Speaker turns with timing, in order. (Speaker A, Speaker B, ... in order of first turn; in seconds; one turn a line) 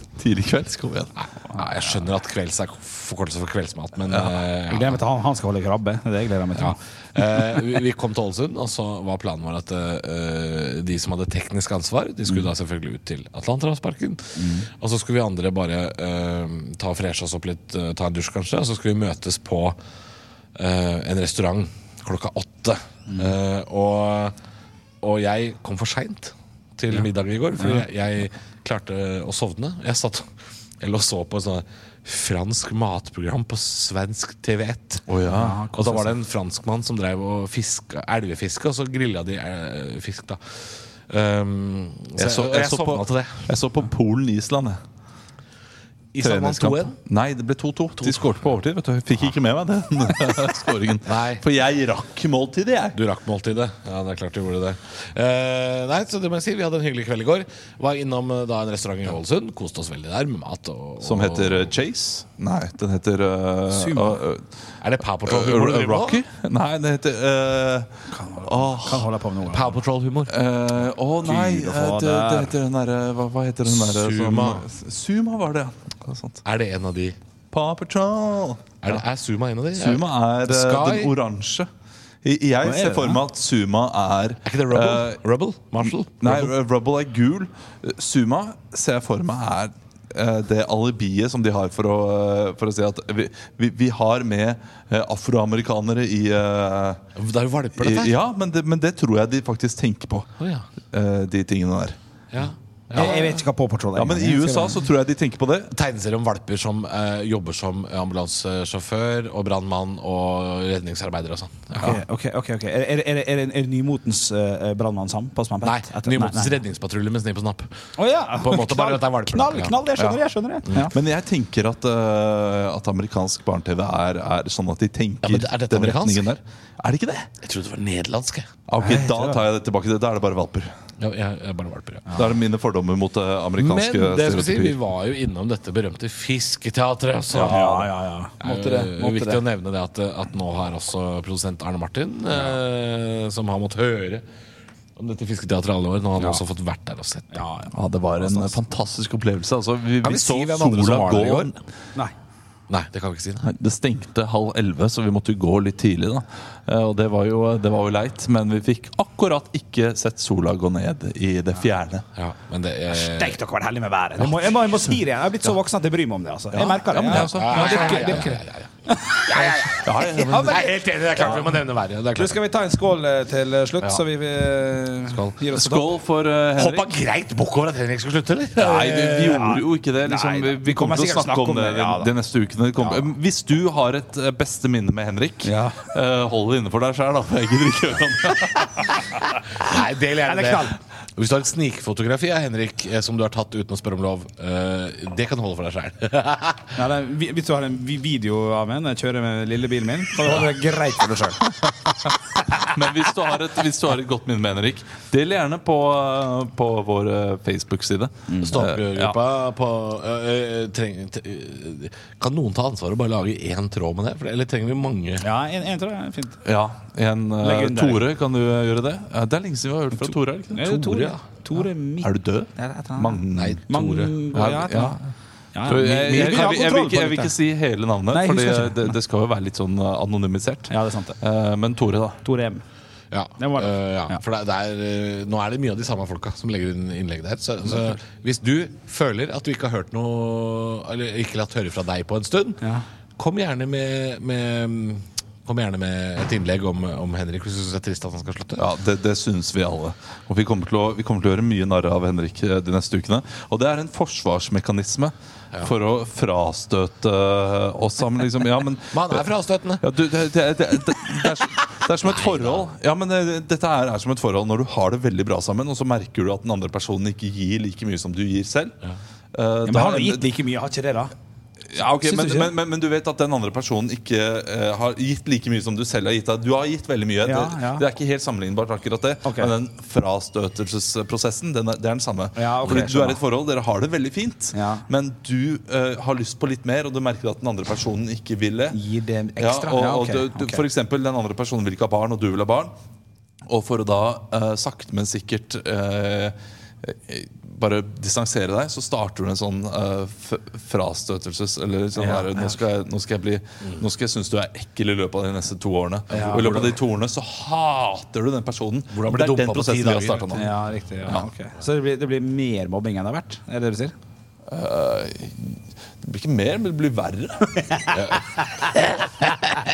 Speaker A: 0.2-1.1
Speaker B: 1.2-5.0
Speaker C: 1.5-2.0
Speaker A: 4.1-4.4
Speaker C: 4.7-6.8
Speaker B: 6.6-19.8
Speaker C: 14.3-14.7
Speaker B: 20.5-24.3
Speaker B: 25.0-30.2
Speaker C: 27.6-27.8
Speaker B: 30.8-35.1
Speaker A: 35.1-35.6
Speaker C: 35.3-36.1
Speaker B: 35.7-43.5
Speaker A: 42.1-44.8
Speaker B: 46.1-46.9
Speaker A: 46.2-53.0
Speaker B: 48.0-48.3
Speaker B: 51.0-51.4
Speaker B: 52.9-61.7
Speaker A: 61.0-64.5
Speaker C: 63.7-64.2
Speaker B: 64.8-66.2
Speaker A: 65.2-69.1
Speaker C: 68.1-69.8
Speaker B: 69.5-70.4
Speaker A: 70.3-76.4
Speaker C: 71.2-72.5
Speaker B: 73.6-74.7
Speaker B: 76.4-77.2
Speaker A: 77.5-79.0
Speaker B: 78.8-81.1
Speaker A: 79.7-81.7
Speaker A: 82.2-85.2
Speaker C: 82.6-83.2
Speaker B: 84.4-86.5
Speaker A: 85.9-97.0
Speaker B: 97.1-98.2
Speaker A: 97.8-100.3
Speaker B: 100.4-100.6
Speaker A: 100.9-102.0
Speaker B: 102.3-103.5
Speaker C: 102.9-104.8
Speaker A: 104.0-105.7
Speaker B: 105.7-112.0
Speaker C: 111.8-116.6
Speaker B: 115.6-117.7
Speaker C: 118.0-120.9
Speaker B: 118.4-119.7
Speaker A: 120.0-120.2
Speaker A: 120.9-127.3
Speaker B: 125.2-126.2
Speaker B: 127.4-128.5
Speaker A: 128.7-130.7
Speaker C: 128.8-129.4
Speaker B: 131.0-132.2
Speaker A: 132.1-134.8
Speaker B: 133.6-137.9
Speaker A: 137.3-137.9
Speaker C: 137.3-139.4
Speaker B: 138.4-144.2
Speaker B: 144.9-147.4
Speaker C: 147.3-147.7
Speaker A: 147.7-151.6
Speaker B: 150.0-151.5
Speaker B: 152.7-153.5
Speaker A: 153.4-162.0
Speaker B: 162.1-163.4
Speaker C: 162.9-171.5
Speaker A: 166.5-168.2
Speaker B: 167.1-172.4
Speaker A: 169.8-170.6
Speaker C: 172.1-175.9
Speaker B: 175.1-175.4
Speaker A: 175.5-176.9
Speaker B: 176.6-179.4
Speaker A: 178.6-189.0
Speaker C: 178.7-182.1
Speaker C: 182.8-183.1
Speaker C: 185.4-185.8
Speaker B: 189.5-196.8
Speaker C: 190.2-190.8
Speaker C: 196.8-201.5
Speaker A: 202.7-209.2
Speaker C: 208.3-208.6
Speaker B: 208.4-215.2
Speaker C: 215.2-216.4
Speaker A: 216.4-220.8
Speaker C: 217.4-218.1
Speaker C: 220.5-225.0
Speaker B: 220.6-221.2
Speaker A: 222.0-223.6
Speaker B: 223.3-224.5
Speaker A: 224.3-225.1
Speaker C: 225.5-227.3
Speaker A: 225.6-232.2
Speaker B: 226.1-226.6
Speaker C: 228.1-228.9
Speaker C: 230.7-231.2
Speaker C: 232.2-232.6
Speaker B: 233.1-242.6
Speaker C: 233.4-234.2
Speaker B: 243.2-248.7
Speaker A: 248.6-259.3
Speaker B: 258.9-259.8
Speaker A: 259.8-268.8
Speaker B: 262.0-262.6
Speaker A: 269.3-270.3
Speaker C: 269.7-271.1
Speaker A: 271.7-288.8
Speaker C: 272.0-272.5
Speaker C: 277.2-277.8
Speaker C: 279.2-279.5
Speaker C: 282.4-283.2
Speaker C: 284.5-284.8
Speaker C: 288.7-290.6
Speaker A: 289.4-292.7
Speaker A: 293.5-310.5
Speaker C: 302.0-302.6
Speaker C: 306.1-306.7
Speaker B: 306.1-306.8
Speaker B: 308.9-310.3
Speaker C: 310.3-313.9
Speaker A: 314.5-317.9
Speaker B: 317.9-318.2